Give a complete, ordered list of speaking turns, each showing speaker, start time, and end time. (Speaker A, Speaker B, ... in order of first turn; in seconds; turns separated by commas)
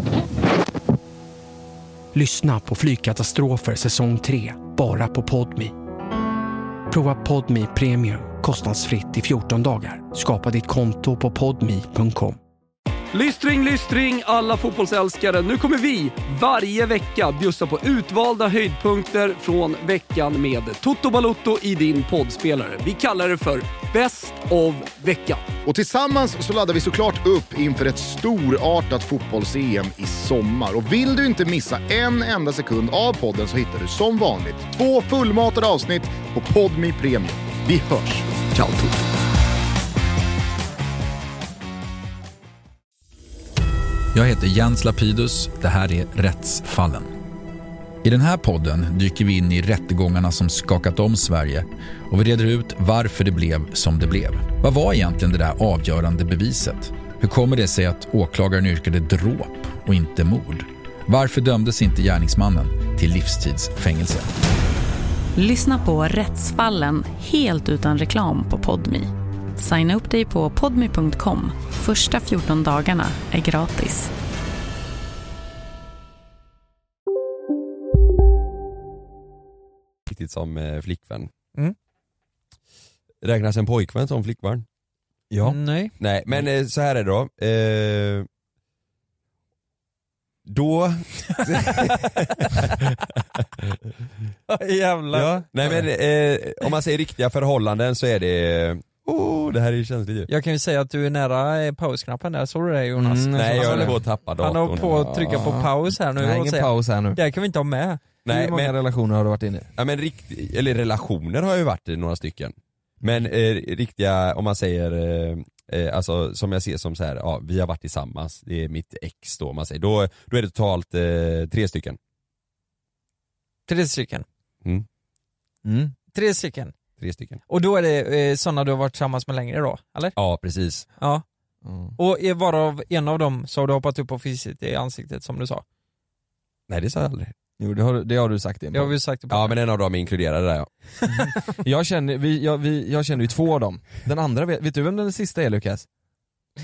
Speaker A: 2.1-5.7, Speaker A: 6.9-12.4, Speaker B: 13.1-25.4, Speaker C: 25.7-38.9, Speaker D: 44.1-47.1, Speaker D: 48.0-64.3, Speaker E: 65.4-74.1, Speaker F: 80.1-81.3, Speaker F: 83.2-84.7, Speaker G: 85.3-85.6, Speaker H: 85.4-86.0, Speaker F: 86.0-88.3, Speaker F: 90.5-92.7, Speaker H: 94.5-95.5, Speaker F: 95.1-100.3, Speaker H: 100.3-108.6, Speaker G: 103.0-104.0, Speaker F: 103.3-105.1, Speaker G: 104.8-107.2, Speaker F: 108.2-108.7, Speaker G: 108.3-109.7, Speaker F: 109.8-122.0, Speaker H: 123.7-124.3, Speaker G: 125.6-126.0, Speaker H: 126.1-126.7, Speaker F: 127.0-127.4, Speaker H: 127.5-130.1, Speaker F: 130.2-130.9, Speaker H: 131.0-131.2, Speaker G: 131.6-132.0, Speaker H: 132.0-135.6, Speaker F: 136.7-137.3, Speaker G: 137.6-138.9, Speaker H: 138.7-139.6, Speaker F: 139.3-140.7, Speaker G: 141.1-145.9